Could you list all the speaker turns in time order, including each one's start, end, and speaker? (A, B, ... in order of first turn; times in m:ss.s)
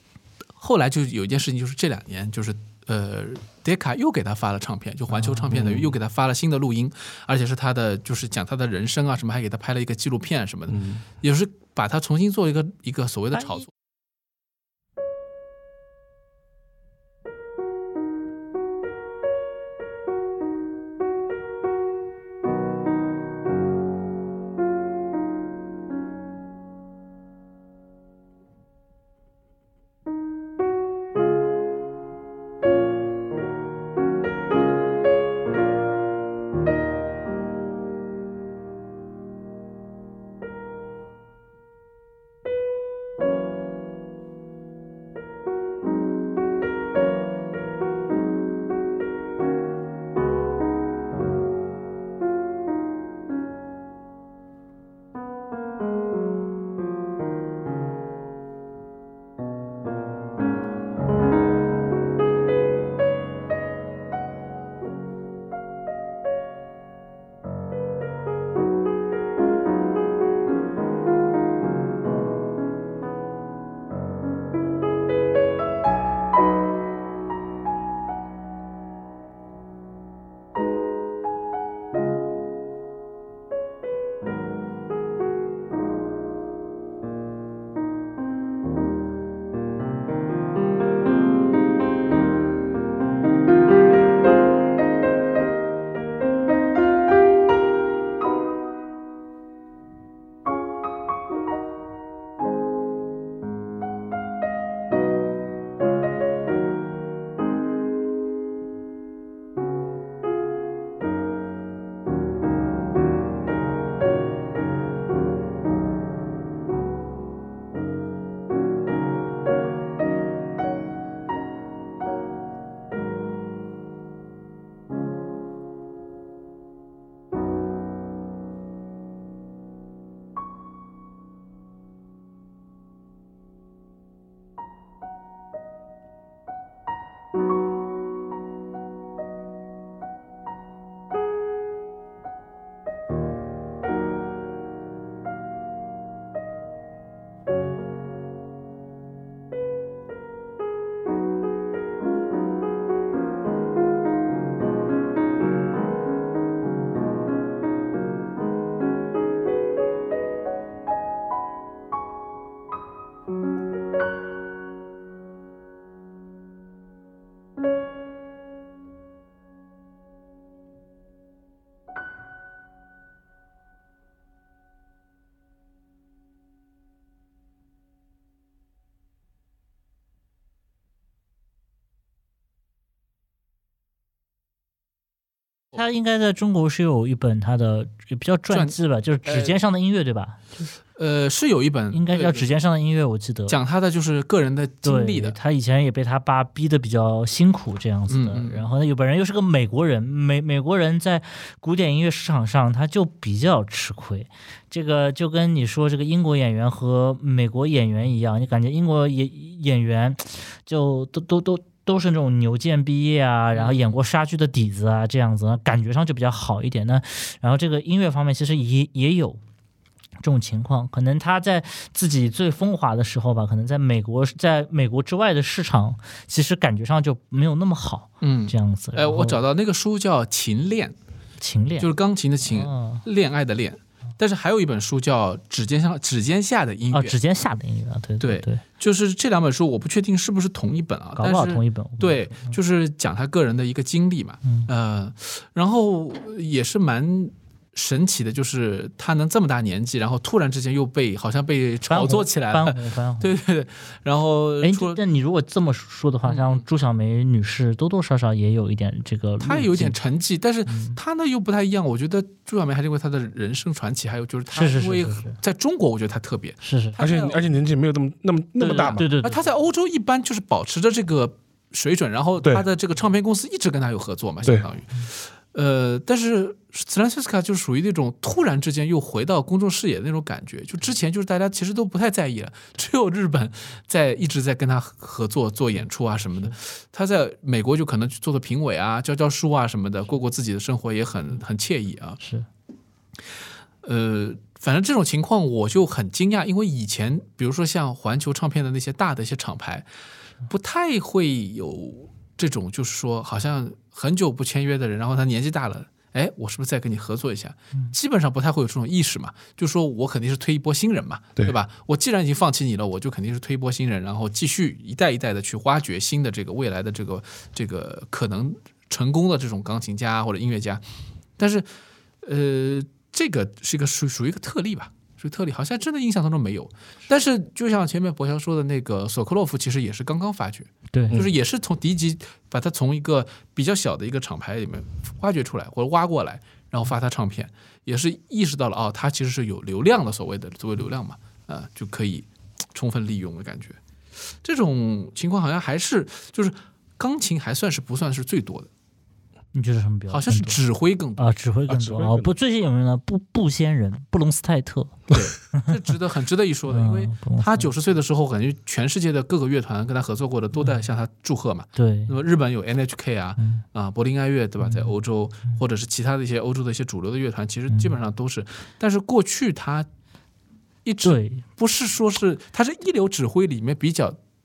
0:00.6-0:13.7 A
0:05.2-0:05.6 B
0:05.5-0:06.0 C
0:10.7-0:11.0 C
0:13.4-0:13.6 B
3:05.8-3:10.6 B
3:08.5-3:09.6 A
3:11.0-3:12.5 A
3:11.9-3:13.6 B
3:13.5-3:15.4 A
3:14.8-3:39.4 B
3:18.1-3:18.7 A
3:33.5-3:34.0 A
3:40.2-3:49.4 B
3:48.2-3:51.0 A
3:51.4-3:51.9 B
3:51.8-3:57.2 A
3:52.5-3:53.0 B
3:56.9-3:58.6 B
3:58.2-4:15.0 A
4:01.2-4:02.5 B
4:11.9-4:13.3 B
4:14.6-4:20.0 B
4:16.3-4:16.6 A
4:19.4-4:27.5 A
4:20.7-4:21.0 B
4:24.5-4:25.4 B
4:26.6-4:27.0 B
4:27.0-4:29.0 C
4:28.6-4:29.4 B
4:28.6-4:52.2 A
4:52.2-4:52.5 B
4:53.8-4:59.9 A
5:00.5-5:20.8 A
5:21.4-5:21.7 A
5:22.2-5:43.8 A
5:30.9-5:31.2 B
5:44.4-5:48.7 A
5:49.5-5:50.6 B
5:50.1-5:51.3 A
5:51.2-5:55.7 B
5:51.7-5:52.3 C
5:55.1-6:09.9 A
5:56.7-5:57.7 B
6:01.8-6:02.1 B
6:03.4-6:03.6 B
6:04.6-6:04.9 B
6:10.8-6:14.2 A
6:11.0-6:11.4 B